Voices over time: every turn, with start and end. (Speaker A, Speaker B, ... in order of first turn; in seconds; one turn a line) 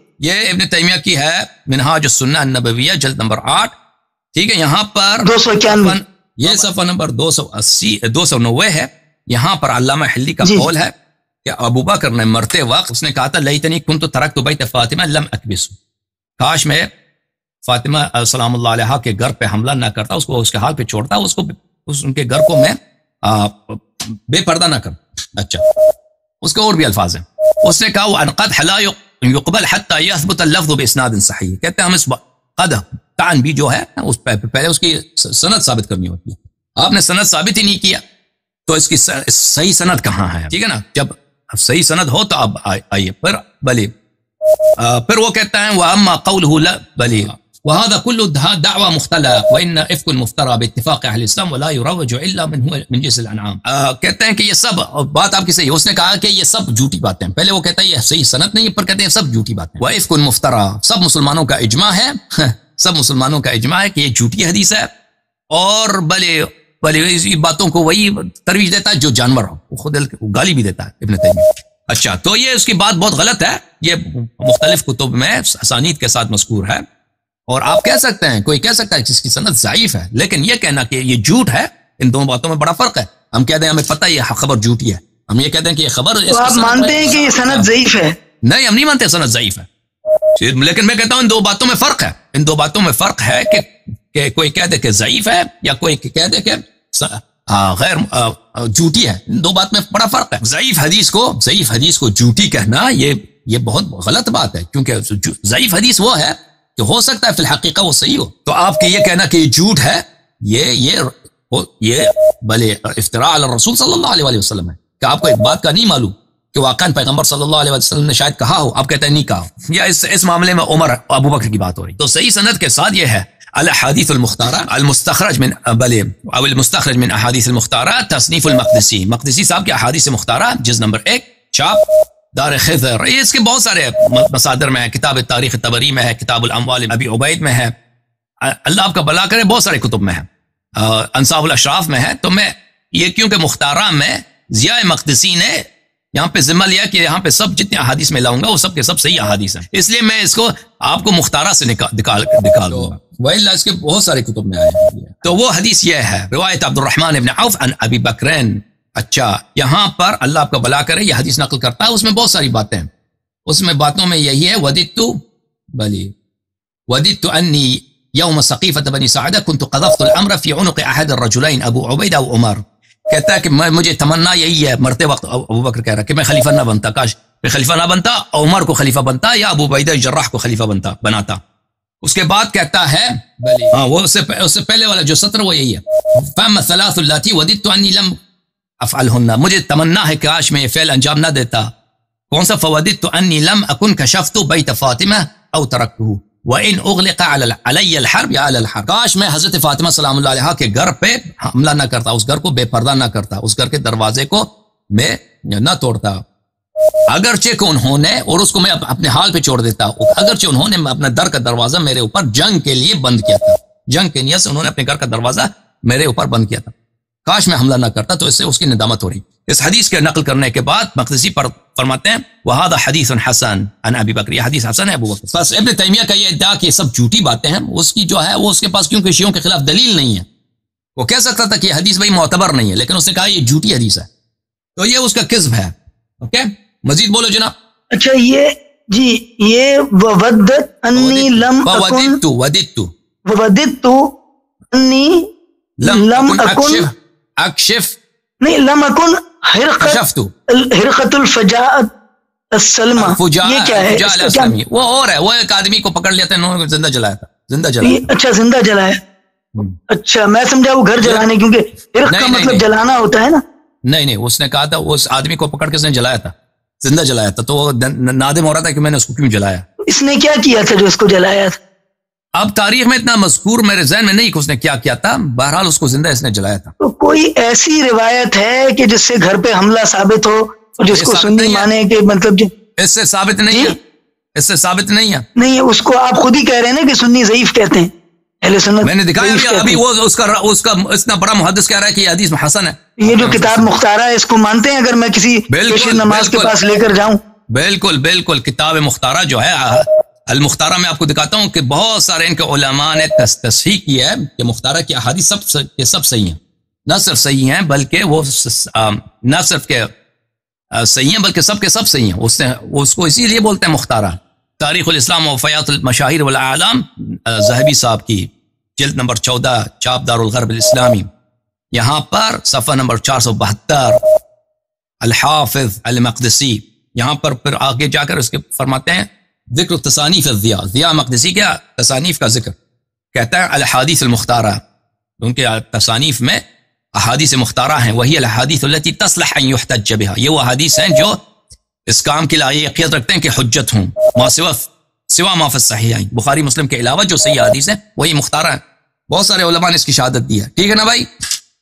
Speaker A: 0.2-3.7
Speaker A: 4.3-10.9
Speaker B: 5.2-6.7
Speaker A: 11.4-15.8
Speaker A: 16.4-16.9
Speaker A: 17.6-25.6
Speaker A: 26.4-38.0
Speaker A: 38.7-43.9
Speaker A: 44.8-64.9
Speaker A: 65.5-76.8
Speaker A: 77.5-87.7
Speaker B: 86.3-88.2
Speaker A: 88.4-89.7
Speaker A: 90.4-131.8
Speaker A: 132.3-137.7
Speaker A: 138.4-145.6
Speaker A: 146.1-162.9
Speaker A: 163.5-165.2
Speaker A: 165.8-166.1
Speaker A: 166.9-181.4
Speaker A: 182.0-188.2
Speaker A: 188.8-191.7
Speaker A: 192.3-206.2
Speaker A: 207.1-216.7
Speaker A: 217.2-230.2
Speaker A: 230.9-234.1
Speaker A: 234.8-237.5
Speaker B: 237.9-242.2
Speaker A: 240.9-242.9
Speaker B: 243.2-244.1
Speaker B: 244.7-245.3
Speaker A: 245.8-247.9
Speaker B: 245.8-246.9
Speaker B: 248.4-251.9
Speaker A: 249.8-250.3
Speaker B: 252.5-254.5
Speaker A: 253.0-258.1
Speaker B: 257.8-259.0
Speaker B: 259.9-263.4
Speaker A: 262.1-262.6
Speaker A: 263.9-269.6
Speaker B: 269.9-271.6
Speaker A: 272.3-276.7
Speaker B: 276.8-282.5
Speaker A: 280.9-281.7
Speaker A: 282.8-283.8
Speaker B: 283.5-283.7
Speaker A: 284.4-285.2
Speaker B: 285.4-287.9
Speaker B: 288.4-289.8
Speaker A: 288.8-293.7
Speaker B: 293.0-297.2
Speaker A: 295.5-296.5
Speaker A: 297.5-309.9
Speaker A: 310.7-321.1
Speaker A: 321.7-324.0
Speaker A: 325.0-332.5
Speaker A: 333.1-334.6
Speaker A: 335.2-336.4
Speaker A: 337.0-341.1
Speaker A: 341.9-351.1